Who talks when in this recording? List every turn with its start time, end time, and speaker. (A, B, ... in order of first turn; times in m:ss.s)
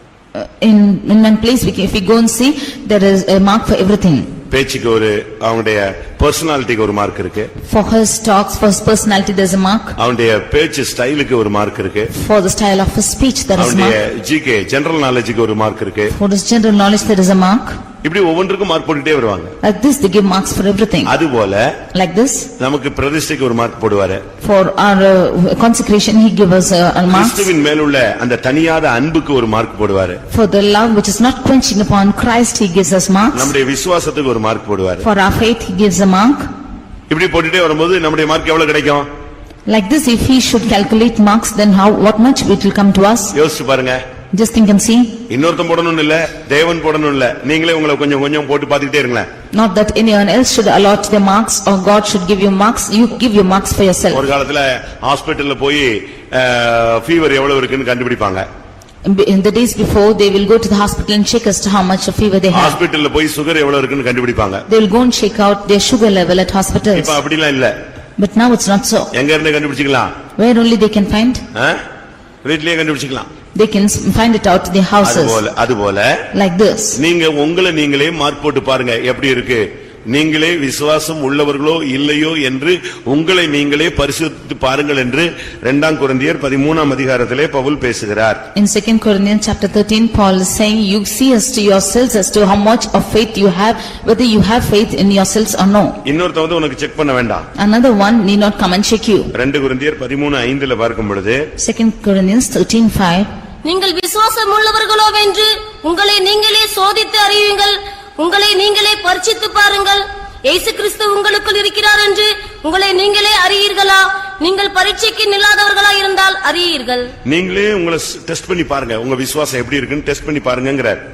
0:00.3-0:04.3 A
0:04.5-0:07.5 B
0:07.6-0:10.0 A
0:10.0-0:12.1 B
0:12.1-0:14.0 A
0:13.6-0:16.1 B
0:16.1-0:17.8 A
0:18.0-0:19.5 B
0:19.6-0:21.2 A
0:21.0-0:21.7 B
0:21.9-0:22.5 A
0:22.6-0:24.2 B
0:24.4-0:27.5 A
0:27.1-0:30.2 B
0:30.3-0:33.5 A
0:33.3-0:35.0 B
0:35.0-0:36.5 A
0:37.1-0:39.0 B
0:39.7-0:43.3 A
0:43.3-0:44.0 B
0:44.3-0:45.2 A
0:45.3-0:49.3 B
0:49.5-0:54.3 A
0:54.1-0:58.4 B
0:59.0-1:02.8 A
1:02.5-1:04.6 B
1:04.7-1:07.2 A
1:06.9-1:07.8 B
1:08.2-1:09.1 A
1:09.1-1:10.1 B
1:10.4-1:11.4 A
1:11.5-1:11.8 B
1:12.4-1:13.3 B
1:13.5-1:15.4 A
1:15.0-1:16.2 B
1:16.3-1:17.0 A
1:17.0-1:28.4 B
1:28.5-1:36.0 A
1:36.0-1:37.5 B
1:37.6-1:39.3 A
1:39.3-1:41.4 B
1:41.6-1:43.3 A
1:43.6-1:57.1 C
1:57.2-2:01.0 B